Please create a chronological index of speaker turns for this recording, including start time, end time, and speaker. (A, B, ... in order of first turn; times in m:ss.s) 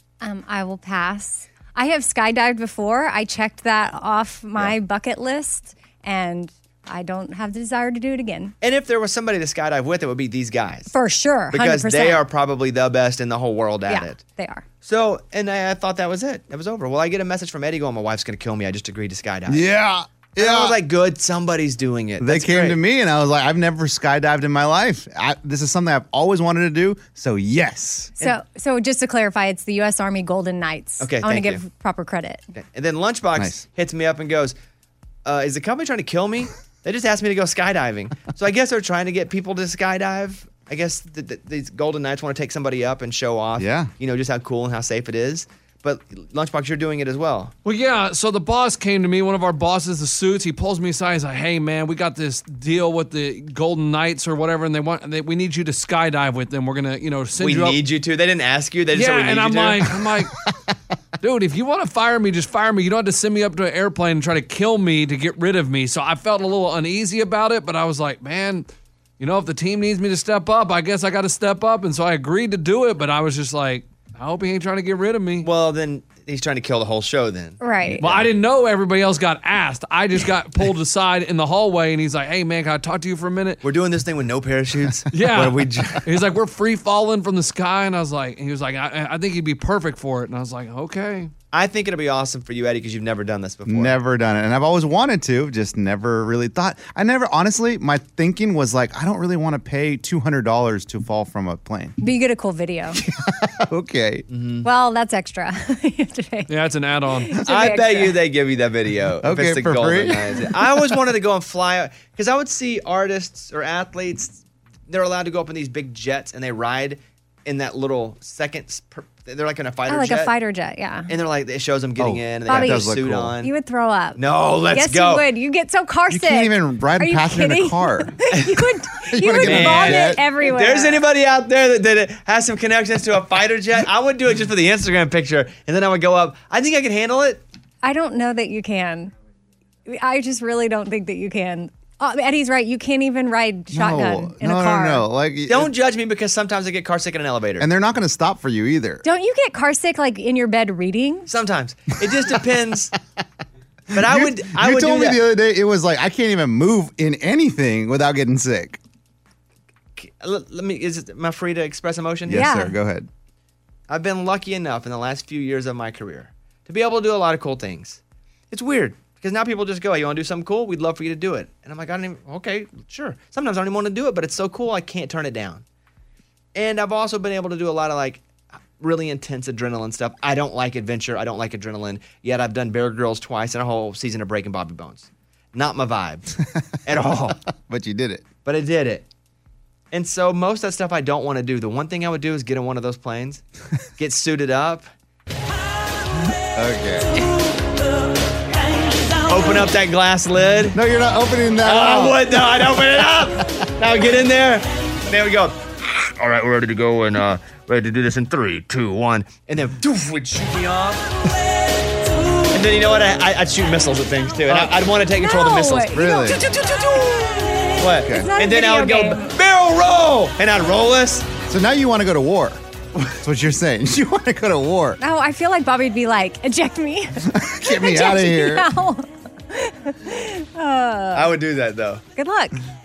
0:00.2-0:08.6 A
0:08.6-0:10.9 B
0:10.9-0:12.2 A
0:11.5-0:14.2 B
0:13.9-0:14.7 A
0:14.8-0:19.6 B
0:19.5-0:20.8 C
0:20.4-0:22.8 B
0:22.2-0:28.1 C
0:28.2-0:32.4 A
0:31.0-0:31.6 B
0:32.6-0:34.6 B
0:33.4-0:33.6 C
0:35.2-0:47.5 B
0:43.6-0:43.9 C
0:47.6-0:57.8 D
0:57.4-0:59.9 B
0:58.9-1:00.3 D
1:01.2-1:08.7 D
1:09.2-1:15.5 D
1:15.4-1:18.3 B
1:17.6-1:18.1 A
1:18.0-1:23.6 D
1:23.6-1:26.0 B
1:25.1-1:31.3 D
1:31.5-1:34.0 B
1:33.7-1:41.9 C
1:42.0-1:43.0 A
1:43.3-1:44.3 C
1:44.3-1:44.7 B
1:44.6-1:46.5 A
1:46.5-1:47.4 D
1:47.2-1:48.2 A
1:47.4-2:00.3 B
1:49.2-1:50.5 C
1:59.9-2:01.1 A
2:01.1-2:03.5 B
2:02.0-2:03.4 C
2:02.5-2:02.9 A
2:03.4-2:11.0 A
2:04.2-2:05.3 B
2:06.1-2:08.1 C
2:08.4-2:08.6 B
2:09.1-2:10.2 C
2:09.4-2:17.4 B
2:17.8-2:19.1 A
2:19.9-2:25.1 A
2:23.7-2:25.7 C
2:25.5-2:27.7 B
2:27.6-2:29.0 C
2:29.0-2:31.3 A
2:31.3-2:32.9 B
2:33.9-2:38.8 C
2:33.9-2:35.2 B
2:40.0-2:42.5 B
2:42.3-2:43.1 C
2:42.3-2:42.8 A
2:43.9-2:48.0 B
2:48.5-2:55.6 B
2:56.5-2:58.3 B
2:58.8-3:06.3 B
3:06.8-3:07.4 B
3:07.7-3:08.3 C
3:08.4-3:09.1 B
3:09.9-3:13.4 B
3:14.0-3:14.9 B
3:16.5-3:17.2 C
3:19.3-3:20.8 B
3:20.7-3:23.4 C
3:21.6-3:31.0 B
3:32.5-3:41.3 B
3:34.4-3:34.8 C
3:35.1-3:36.3 A
3:35.9-3:36.5 C
3:38.0-3:38.3 C
3:38.1-3:39.3 A
3:41.4-3:42.6 C
3:43.2-3:45.0 C
3:45.0-3:51.3 A
3:47.3-3:48.7 C
3:51.1-3:52.0 B
3:52.1-3:52.6 A